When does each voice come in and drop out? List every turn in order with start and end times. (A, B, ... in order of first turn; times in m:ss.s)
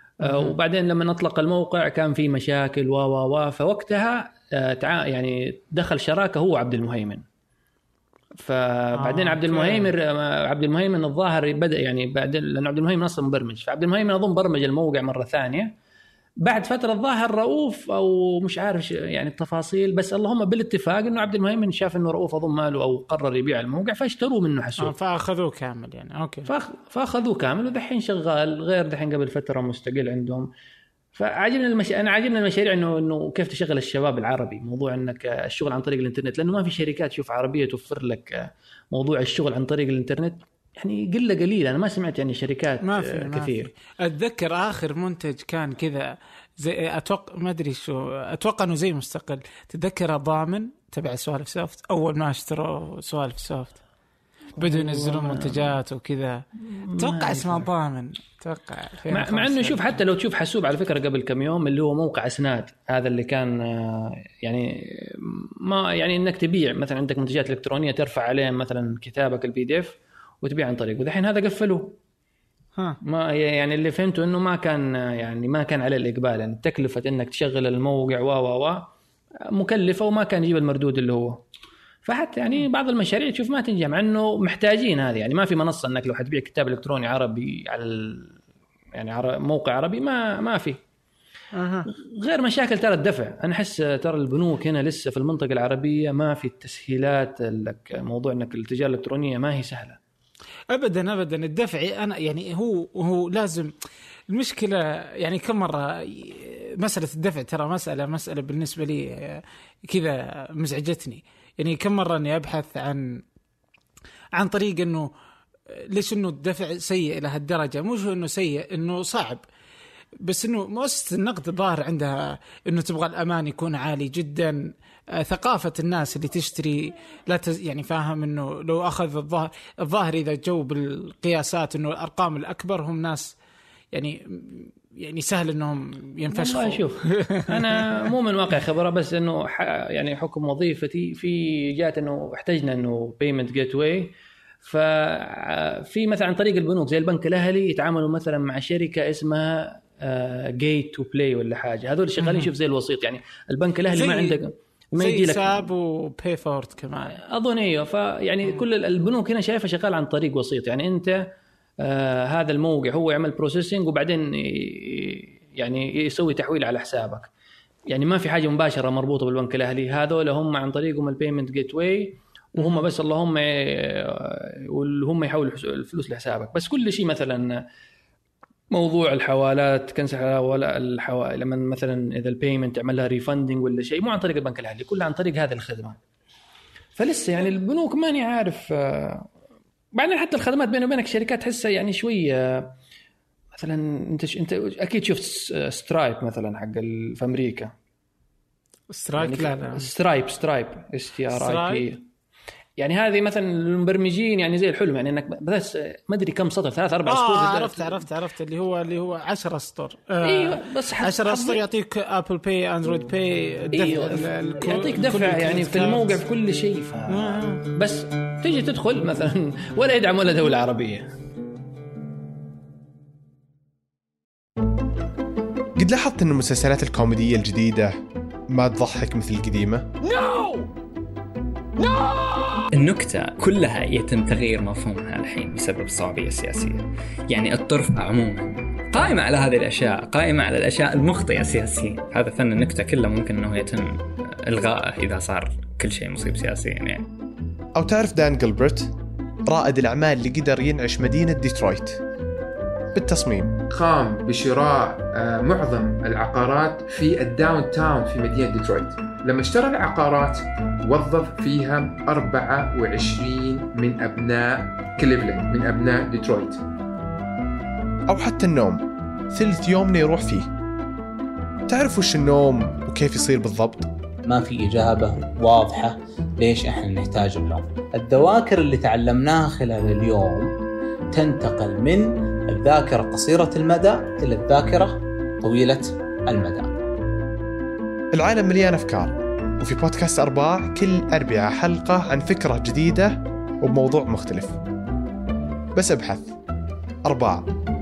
0:00.2-0:07.2 A
0:00.2-0:00.5 B
0:08.4-0:15.7 A
0:09.0-0:09.9 B
0:16.4-0:24.9 A
0:24.8-0:26.5 B
0:26.4-0:30.5 A
0:31.1-0:43.7 A
0:42.8-0:53.8 B
0:54.6-0:55.7 A
0:54.6-0:59.9 B
0:56.7-0:57.6 A
0:59.1-1:12.0 A
1:13.0-1:18.9 A
1:19.5-1:21.4 A
1:22.0-1:28.3 A
1:28.9-1:30.8 A
1:31.5-1:31.9 B
1:31.9-1:40.0 A
1:40.7-1:43.7 B
1:44.3-1:53.2 B
1:54.4-1:55.1 B
1:55.7-1:59.4 B
2:00.2-2:13.3 B
2:13.9-2:18.0 B
2:16.3-2:35.6 A
2:32.2-2:32.5 B
2:33.9-2:34.4 B
2:35.0-2:37.2 B
2:37.2-2:47.3 A
2:47.9-2:57.6 A
2:52.6-2:52.8 B
2:58.7-3:06.0 A
3:07.0-3:09.3 A
3:09.9-3:12.7 A
3:13.5-3:17.7 A
3:18.9-3:19.9 B
3:19.2-3:22.0 A
3:21.3-3:21.8 B
3:22.8-3:28.0 A
3:27.0-3:36.2 B
3:30.2-3:31.6 A
3:33.7-3:41.1 A
3:37.1-3:37.6 B
3:45.8-3:49.9 C
3:50.1-3:50.6 D
3:51.9-3:52.6 D
3:52.7-4:07.1 E
4:07.7-4:08.9 C
4:09.4-4:12.0 C
4:12.9-4:13.6 C
4:13.7-4:26.6 D
4:28.1-4:30.5 C
4:31.7-4:33.9 C
4:34.2-4:40.5 F
4:41.1-4:46.7 F
4:48.1-4:54.6 C
4:55.7-4:56.4 C
4:57.0-4:57.5 C